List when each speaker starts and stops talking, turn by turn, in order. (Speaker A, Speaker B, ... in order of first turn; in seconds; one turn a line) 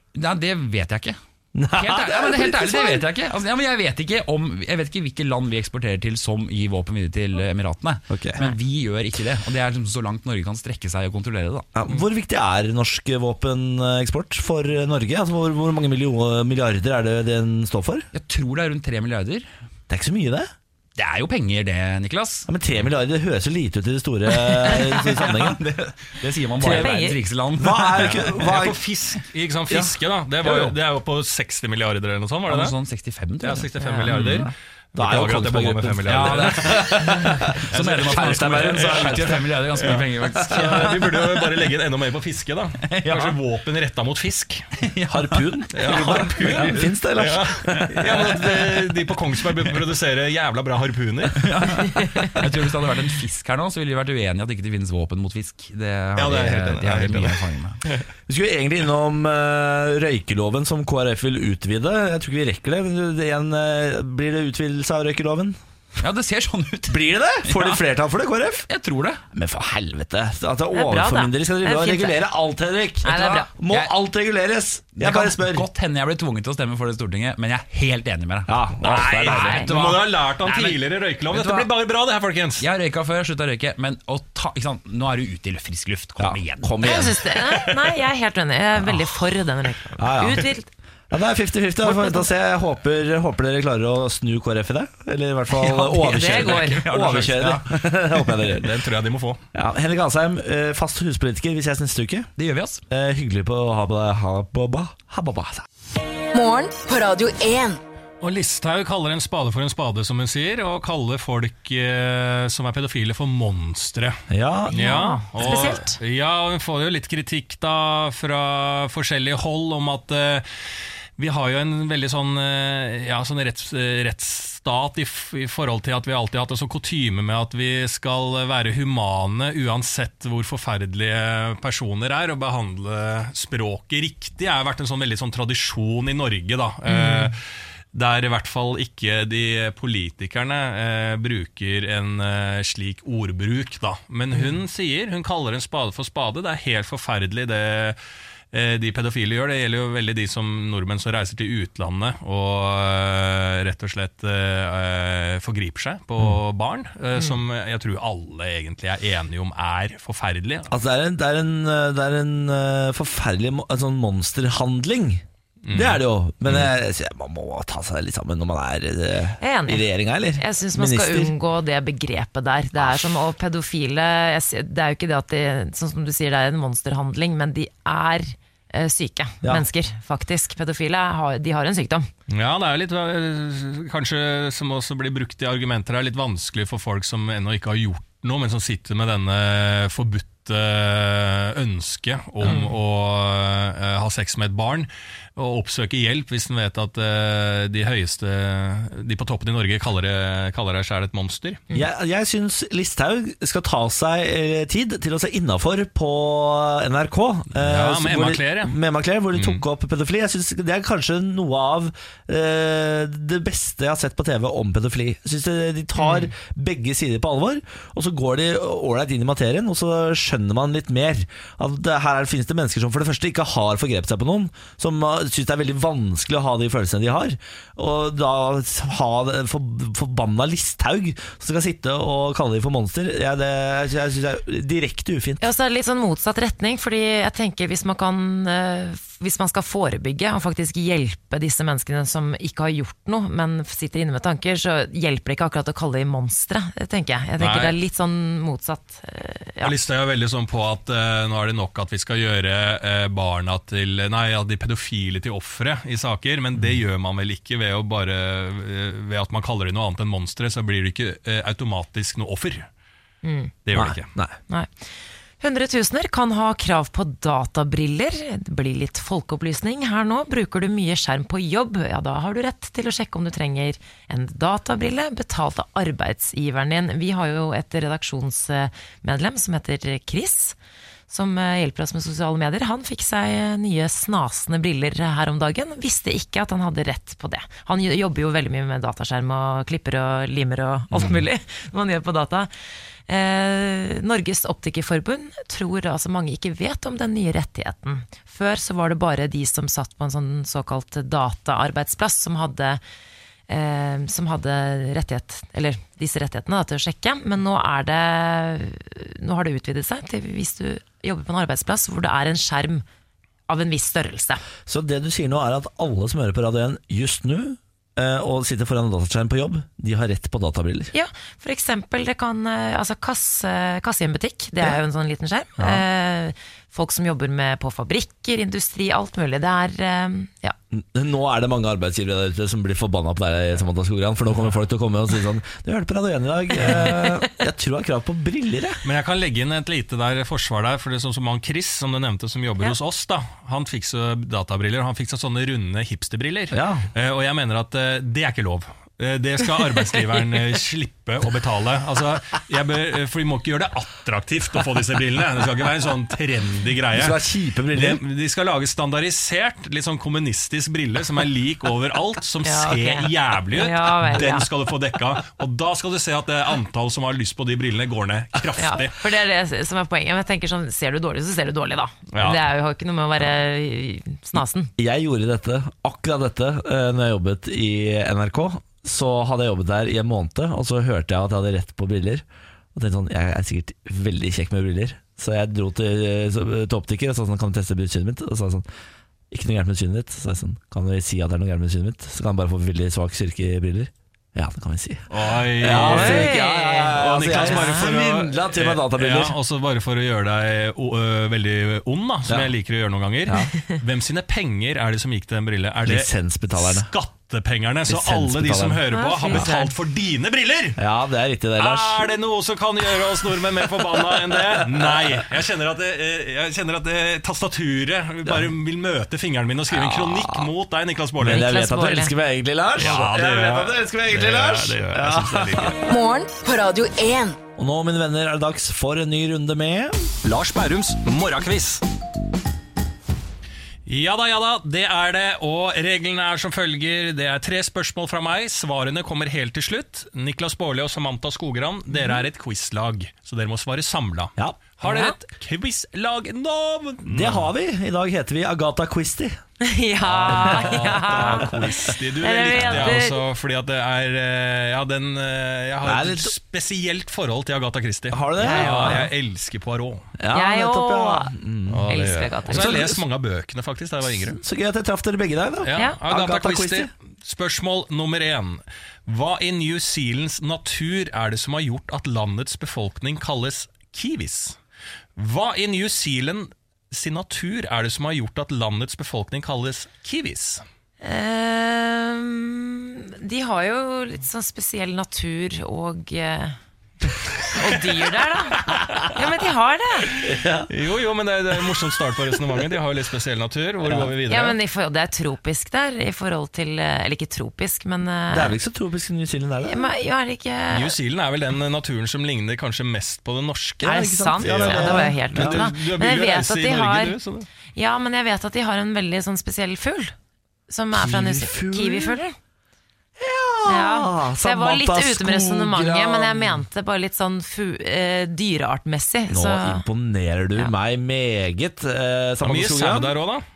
Speaker A: 0.1-1.2
Speaker B: 1.6-3.0
Speaker A: 1.7-11.7
Speaker B: 8.1-8.5
Speaker B: 11.8-18.1
Speaker A: 18.1-19.5
Speaker B: 19.9-20.5
Speaker A: 20.9-22.5
Speaker B: 22.5-25.6
Speaker A: 24.4-28.5
Speaker B: 26.6-26.9
Speaker C: 26.6-27.2
Speaker B: 27.6-28.8
Speaker D: 27.9-32.8
Speaker A: 30.4-30.7
Speaker A: 32.5-34.5
Speaker D: 33.4-44.7
Speaker C: 33.8-34.1
Speaker B: 34.5-40.9
Speaker A: 36.1-41.6
Speaker A: 42.9-43.4
Speaker A: 44.8-46.9
Speaker B: 45.1-48.4
Speaker D: 45.7-51.5
Speaker A: 47.7-48.8
Speaker A: 51.3-57.8
Speaker D: 56.1-58.0
Speaker B: 58.3-65.6
Speaker A: 66.0-67.8
Speaker B: 66.9-68.7
Speaker A: 68.7-69.2
Speaker B: 69.3-75.7
Speaker C: 70.7-72.2
Speaker C: 73.0-73.5
Speaker A: 75.0-81.7
Speaker B: 78.5-80.0
Speaker D: 78.8-82.6
Speaker A: 82.6-87.1
Speaker B: 86.2-87.3
Speaker C: 86.8-90.7
Speaker B: 90.0-90.5
Speaker B: 91.1-98.8
Speaker C: 91.9-92.2
Speaker A: 95.6-97.9
Speaker C: 96.0-96.8
Speaker D: 98.5-99.4
Speaker B: 99.5-102.3
Speaker A: 102.4-102.8
Speaker B: 102.9-105.7
Speaker E: 106.3-107.8
Speaker D: 108.2-114.2
Speaker B: 114.3-114.9
Speaker C: 114.7-116.0
Speaker D: 114.7-120.5
Speaker D: 121.2-137.4
Speaker C: 136.9-137.3
Speaker D: 137.9-148.0
Speaker D: 148.5-160.7
Speaker B: 160.7-171.3
Speaker D: 165.6-166.0
Speaker C: 169.4-182.1
Speaker B: 172.8-173.2
Speaker D: 182.3-201.6
Speaker C: 192.4-192.7
Speaker B: 201.7-235.4
Speaker D: 207.6-208.7
Speaker D: 209.3-209.6
Speaker C: 216.0-216.3
Speaker C: 235.4-249.7
Speaker D: 247.4-247.8
Speaker D: 249.6-262.7
Speaker C: 263.2-263.5
Speaker D: 263.6-264.1
Speaker B: 263.7-264.4
Speaker C: 265.4-280.6
Speaker C: 281.1-292.5
Speaker C: 293.1-302.8
Speaker C: 303.5-312.9
Speaker C: 313.5-314.4
Speaker B: 314.6-320.9
Speaker C: 320.9-330.6
Speaker B: 325.6-325.8
Speaker B: 330.7-338.8
Speaker C: 336.6-337.3
Speaker D: 338.8-369.0
Speaker B: 346.5-346.9
Speaker B: 356.9-358.0
Speaker C: 362.4-364.5
Speaker C: 368.6-374.7
Speaker D: 372.1-372.4
Speaker B: 374.8-388.6
Speaker B: 389.3-399.4
Speaker D: 395.1-396.4
Speaker C: 395.7-397.9
Speaker D: 396.9-410.8
Speaker B: 405.8-406.9
Speaker B: 407.9-409.5
Speaker C: 408.9-409.7
Speaker B: 410.8-412.1
Speaker D: 411.6-421.5
Speaker B: 414.1-415.2
Speaker B: 418.3-418.5
Speaker B: 419.7-420.5
Speaker B: 421.2-425.9
Speaker C: 421.2-422.1
Speaker D: 422.8-425.8
Speaker E: 425.9-427.4
Speaker B: 427.6-430.1
Speaker D: 430.2-431.8
Speaker D: 433.9-447.5
Speaker C: 444.8-445.1
Speaker B: 447.1-449.4
Speaker C: 449.6-453.2
Speaker D: 450.1-460.1
Speaker B: 450.3-451.8
Speaker B: 452.5-453.0
Speaker B: 455.8-456.3
Speaker B: 458.1-459.1
Speaker C: 458.4-459.1
Speaker B: 460.2-463.0
Speaker C: 460.3-461.3
Speaker D: 461.7-464.4
Speaker C: 461.9-462.8
Speaker B: 464.2-466.9
Speaker D: 465.6-474.6
Speaker D: 475.1-480.6
Speaker C: 481.0-486.6
Speaker C: 487.5-490.1
Speaker D: 488.7-489.1
Speaker B: 490.2-490.7
Speaker D: 490.2-494.6
Speaker B: 493.8-494.1
Speaker C: 494.3-498.6
Speaker B: 498.3-499.9
Speaker C: 499.6-500.9
Speaker D: 500.7-507.5
Speaker B: 503.8-505.7
Speaker C: 503.8-507.1
Speaker C: 507.8-510.1
Speaker C: 510.7-512.4
Speaker B: 510.9-512.2
Speaker B: 513.2-516.6
Speaker C: 513.6-519.8
Speaker B: 519.3-523.1
Speaker D: 522.4-523.4